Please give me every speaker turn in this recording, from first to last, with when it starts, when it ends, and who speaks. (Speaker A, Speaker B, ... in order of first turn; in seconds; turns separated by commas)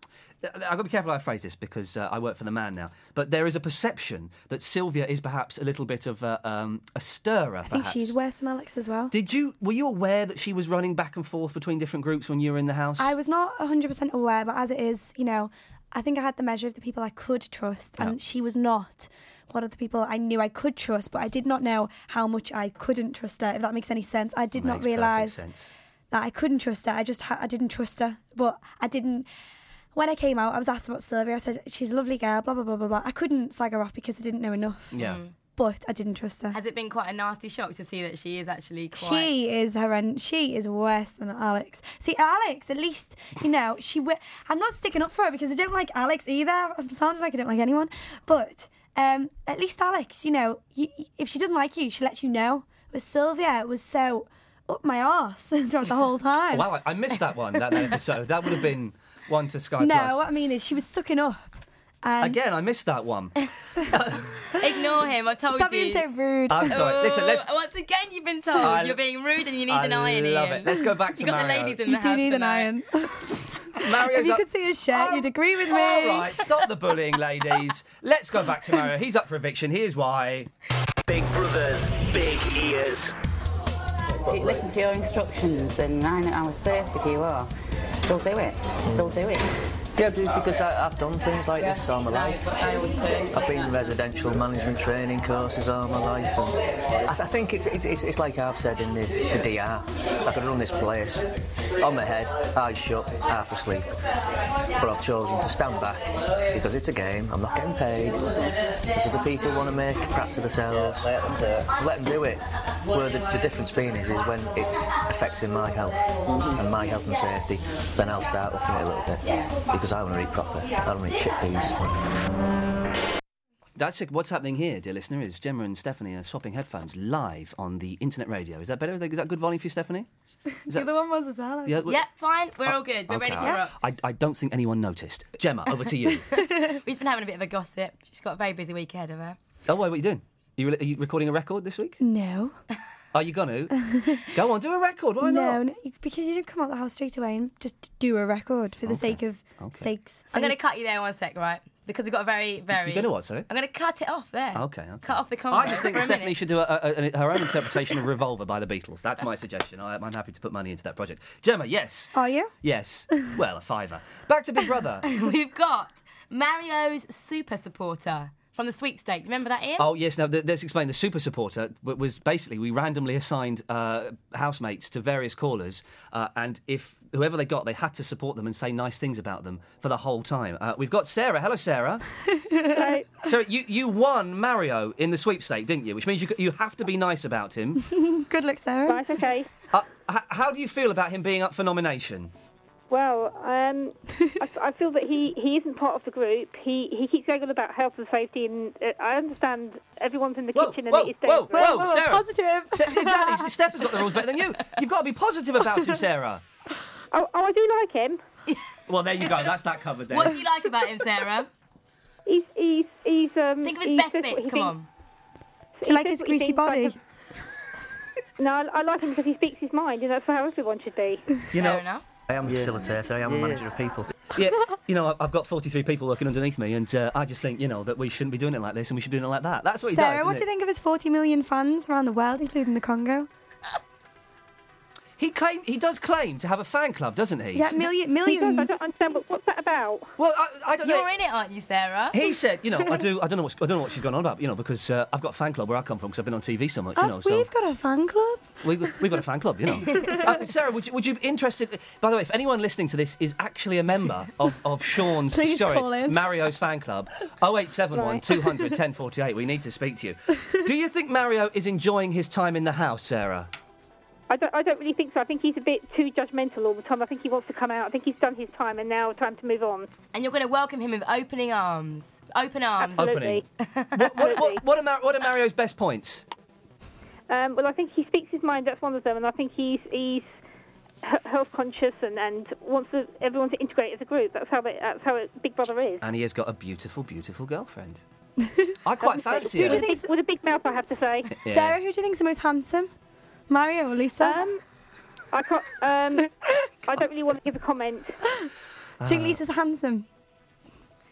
Speaker A: 0.4-8.1, Speaker B: 7.7-9.1, Speaker A: 9.1-13.1, Speaker B: 13.0-25.4, Speaker A: 24.5-25.7, Speaker B: 26.1-29.3, Speaker B: 29.9-34.9, Speaker A: 34.9-35.2, Speaker C: 35.0-35.3, Speaker B: 35.5-36.6, Speaker C: 36.5-39.3, Speaker B: 38.9-56.7, Speaker A: 56.5-60.2, Speaker B: 59.8-61.5, Speaker B: 62.0-62.4, Speaker A: 62.2-63.4, Speaker A: 63.9-64.5, Speaker C: 64.6-66.0, Speaker B: 65.5-66.9, Speaker A: 66.5-67.5, Speaker C: 66.7-72.7, Speaker A: 68.6-69.0, Speaker A: 69.7-71.8, Speaker B: 71.8-76.4, Speaker A: 73.7-80.5, Speaker D: 81.1-83.1, Speaker E: 84.2-87.5, Speaker E: 88.0-89.5, Speaker F: 88.9-89.2, Speaker F: 90.0-92.4, Speaker E: 91.6-93.7, Speaker F: 93.3-101.2, Speaker F: 101.8-103.9, Speaker F: 104.8-111.1, Speaker F: 111.7-122.0, Speaker A: 123.8-130.1, Speaker B: 130.6-131.8, Speaker A: 131.7-132.0, Speaker C: 131.9-133.7, Speaker A: 132.6-136.2, Speaker B: 136.3-136.8, Speaker C: 136.8-139.4, Speaker A: 139.7-142.0, Speaker B: 142.0-142.6, Speaker A: 143.1-145.6, Speaker B: 143.9-144.2, Speaker B: 145.2-150.6, Speaker A: 148.8-149.9, Speaker C: 150.3-156.3, Speaker A: 152.8-153.5, Speaker A: 154.5-165.1, Speaker B: 162.1-162.5, Speaker C: 165.1-169.9, Speaker A: 169.8-182.0, Speaker B: 182.3-182.9, Speaker G: 182.7-183.1, Speaker A: 183.2-187.8, Speaker B: 187.9-189.1, Speaker G: 188.8-189.5, Speaker A: 189.7-192.3, Speaker G: 192.9-201.8, Speaker A: 200.5-206.4, Speaker B: 201.5-203.5, Speaker G: 207.1-208.2, Speaker A: 208.9-210.4, Speaker C: 210.1-211.5, Speaker G: 212.3-214.7, Speaker C: 213.6-214.9, Speaker G: 215.8-216.9, Speaker B: 215.8-217.0, Speaker G: 218.4-221.2, Speaker A: 221.5-221.8, Speaker C: 221.5-222.0, Speaker F: 222.3-224.1, Speaker A: 224.3-230.4, Speaker B: 229.9-233.3, Speaker A: 235.2-237.8, Speaker B: 237.5-238.7, Speaker G: 238.2-240.1, Speaker A: 240.2-241.1, Speaker C: 240.8-242.2, Speaker A: 242.1-247.5, Speaker B: 246.9-249.0, Speaker A: 248.6-263.5, Speaker B: 249.9-250.2, Speaker B: 255.3-256.2, Speaker G: 257.9-258.2, Speaker G: 264.3-269.9, Speaker C: 270.1-273.1, Speaker G: 272.8-273.4, Speaker A: 273.0-273.4, Speaker C: 273.6-273.9, Speaker A: 273.9-276.2, Speaker G: 274.2-274.6, Speaker G: 277.3-280.4, Speaker G: 281.0-286.0, Speaker A: 286.0-288.0, Speaker B: 288.4-288.7, Speaker A: 288.8-289.9, Speaker B: 289.3-290.1, Speaker G: 289.5-291.3, Speaker A: 291.3-291.8, Speaker B: 291.4-292.9, Speaker B: 293.5-294.4, Speaker G: 294.2-294.6, Speaker G: 295.3-296.3, Speaker G: 296.9-298.2, Speaker A: 296.9-297.2, Speaker A: 299.0-299.4, Speaker B: 299.0-300.1